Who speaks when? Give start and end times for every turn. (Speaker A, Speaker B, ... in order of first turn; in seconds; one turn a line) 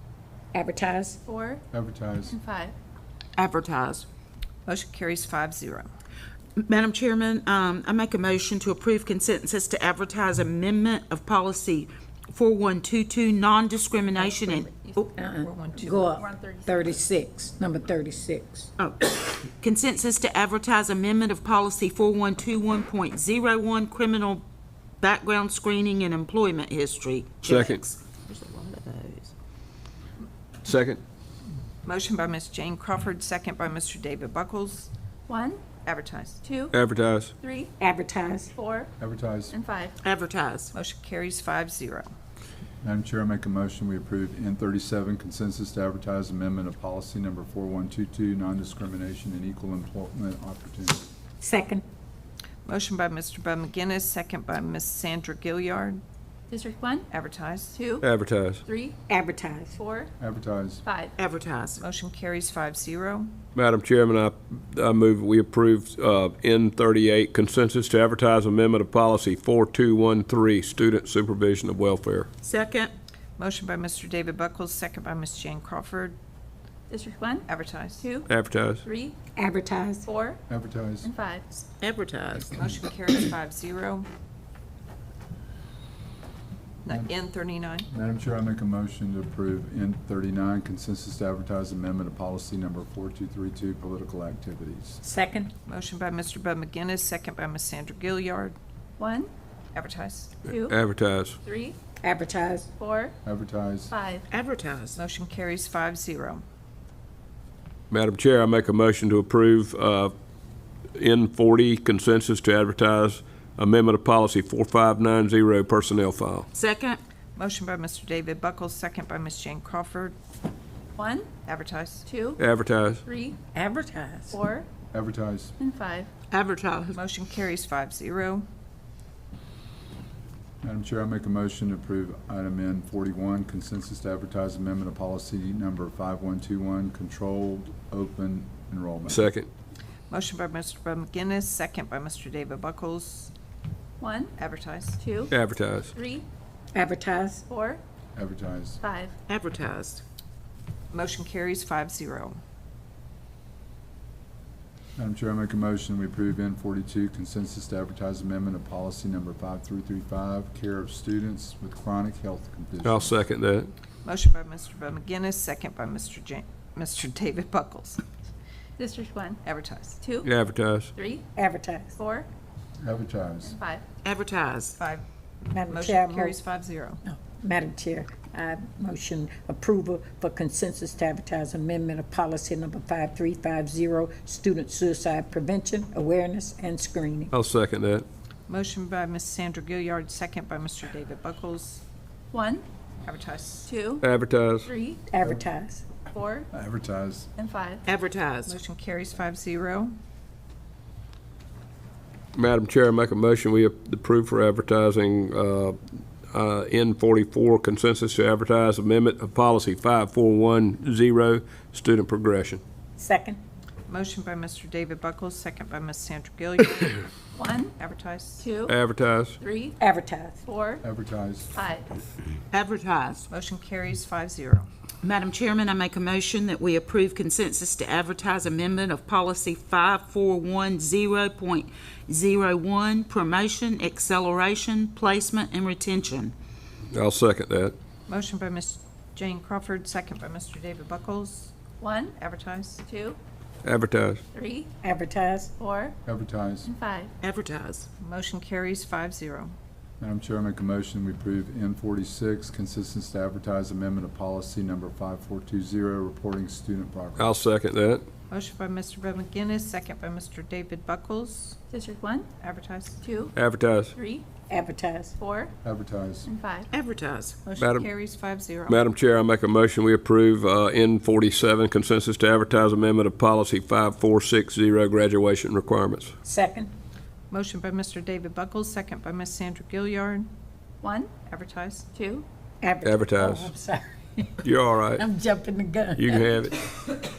Speaker A: 0.5-1.2
Speaker B: 1.2-1.6
Speaker C: 1.7-2.3
Speaker B: 2.2-2.7
Speaker D: 3.4-4.0
Speaker E: 4.7-5.9
Speaker D: 6.6-15.1
Speaker B: 14.2-15.1
Speaker A: 15.0-18.7
Speaker E: 15.2-16.2
Speaker B: 16.0-17.0
Speaker D: 18.8-24.4
Speaker D: 25.0-29.3
Speaker F: 27.4-27.8
Speaker F: 30.6-31.0
Speaker E: 31.8-34.9
Speaker B: 35.3-35.7
Speaker E: 35.8-36.4
Speaker B: 36.4-36.7
Speaker F: 36.7-37.3
Speaker B: 37.4-37.7
Speaker A: 37.8-38.5
Speaker B: 38.5-38.9
Speaker C: 39.0-39.5
Speaker B: 39.5-40.0
Speaker D: 40.0-40.7
Speaker E: 40.7-42.1
Speaker C: 42.8-51.1
Speaker A: 51.4-51.8
Speaker E: 52.6-56.0
Speaker B: 56.5-57.1
Speaker E: 57.1-57.8
Speaker B: 57.7-58.1
Speaker F: 58.0-58.6
Speaker B: 58.6-59.0
Speaker A: 59.1-59.7
Speaker B: 59.7-60.1
Speaker C: 60.2-60.8
Speaker B: 60.8-61.1
Speaker D: 61.2-61.8
Speaker E: 61.8-63.4
Speaker F: 63.5-72.3
Speaker D: 72.4-72.9
Speaker E: 73.4-76.2
Speaker B: 76.9-78.3
Speaker E: 77.5-78.1
Speaker F: 78.3-78.8
Speaker B: 78.8-79.2
Speaker A: 79.3-80.0
Speaker B: 80.0-80.4
Speaker C: 80.5-81.1
Speaker B: 81.0-81.6
Speaker D: 81.8-82.5
Speaker E: 82.5-84.1
Speaker E: 86.8-87.9
Speaker C: 87.9-95.0
Speaker A: 95.0-95.5
Speaker E: 95.7-98.5
Speaker B: 99.0-99.3
Speaker E: 99.7-100.5
Speaker F: 100.5-101.4
Speaker B: 100.5-100.8
Speaker B: 101.4-101.8
Speaker A: 102.0-102.7
Speaker B: 102.8-103.1
Speaker C: 103.2-103.9
Speaker B: 103.9-104.3
Speaker D: 104.3-105.0
Speaker E: 105.0-106.4
Speaker F: 107.9-110.1
Speaker F: 111.0-116.5
Speaker D: 116.5-117.0
Speaker E: 117.3-120.2
Speaker B: 121.0-121.4
Speaker E: 121.4-122.0
Speaker B: 122.0-122.4
Speaker F: 122.4-123.0
Speaker B: 123.0-123.4
Speaker A: 123.5-124.3
Speaker B: 124.3-124.7
Speaker C: 124.9-125.5
Speaker B: 125.6-126.1
Speaker D: 126.3-127.0
Speaker E: 126.9-128.4
Speaker C: 130.6-139.3
Speaker F: 139.1-139.5
Speaker E: 140.1-143.3
Speaker B: 144.0-144.4
Speaker E: 144.4-145.0
Speaker B: 145.0-145.4
Speaker F: 145.3-145.9
Speaker B: 145.9-146.2
Speaker A: 146.7-147.4
Speaker B: 147.5-147.8
Speaker C: 148.1-148.8
Speaker B: 148.8-149.1
Speaker D: 149.3-150.0
Speaker E: 150.9-152.4
Speaker C: 155.0-163.2
Speaker F: 162.8-163.7
Speaker E: 164.0-168.0
Speaker B: 168.8-169.4
Speaker E: 169.4-170.0
Speaker B: 170.0-170.3
Speaker F: 170.2-170.9
Speaker B: 170.9-171.3
Speaker A: 171.3-171.9
Speaker B: 172.0-172.3
Speaker C: 172.8-173.6
Speaker B: 173.4-173.8
Speaker D: 174.0-174.7
Speaker E: 174.8-175.0
Speaker A: 175.5-176.4
Speaker E: 175.6-177.0
Speaker A: 177.0-187.3
Speaker F: 187.3-188.0
Speaker E: 188.5-191.8
Speaker B: 192.3-192.6
Speaker E: 193.0-193.7
Speaker B: 193.6-194.1
Speaker F: 194.0-194.7
Speaker B: 194.6-195.0
Speaker A: 195.1-195.8
Speaker B: 196.1-196.5
Speaker C: 196.5-197.3
Speaker B: 197.4-197.8
Speaker D: 197.8-198.5
Speaker E: 198.4-199.9
Speaker F: 202.3-205.8
Speaker F: 206.3-212.6
Speaker A: 213.0-213.4
Speaker E: 213.9-217.1
Speaker B: 217.3-217.8
Speaker E: 217.8-218.5
Speaker B: 218.4-218.8
Speaker F: 218.6-219.4
Speaker B: 219.4-219.8
Speaker A: 219.8-220.4
Speaker B: 220.4-220.8
Speaker C: 220.8-221.6
Speaker B: 221.5-221.9
Speaker D: 222.5-223.2
Speaker E: 223.3-224.7
Speaker D: 225.0-236.3
Speaker F: 236.9-237.7
Speaker E: 238.1-241.5
Speaker B: 241.8-242.2
Speaker E: 242.2-242.8
Speaker B: 242.8-243.2
Speaker F: 243.6-244.2
Speaker B: 244.3-244.7
Speaker A: 244.8-245.5
Speaker B: 245.6-245.9
Speaker C: 246.1-246.7
Speaker B: 246.6-247.1
Speaker D: 247.2-247.9
Speaker E: 248.0-249.5
Speaker C: 250.0-257.4
Speaker F: 257.2-258.0
Speaker E: 258.3-261.6
Speaker B: 261.7-262.3
Speaker E: 262.4-263.0
Speaker B: 263.0-263.4
Speaker F: 263.3-263.9
Speaker B: 263.9-264.3
Speaker A: 264.5-265.1
Speaker B: 265.2-265.5
Speaker C: 265.6-266.3
Speaker B: 266.2-266.7
Speaker D: 266.7-267.4
Speaker E: 267.5-268.9
Speaker F: 267.6-267.9
Speaker F: 268.7-276.1
Speaker A: 276.2-276.7
Speaker E: 277.3-280.3
Speaker B: 280.8-281.2
Speaker E: 281.2-281.9
Speaker B: 281.9-282.2
Speaker A: 282.6-286.3
Speaker F: 282.8-283.5
Speaker F: 284.4-285.0
Speaker F: 285.9-286.7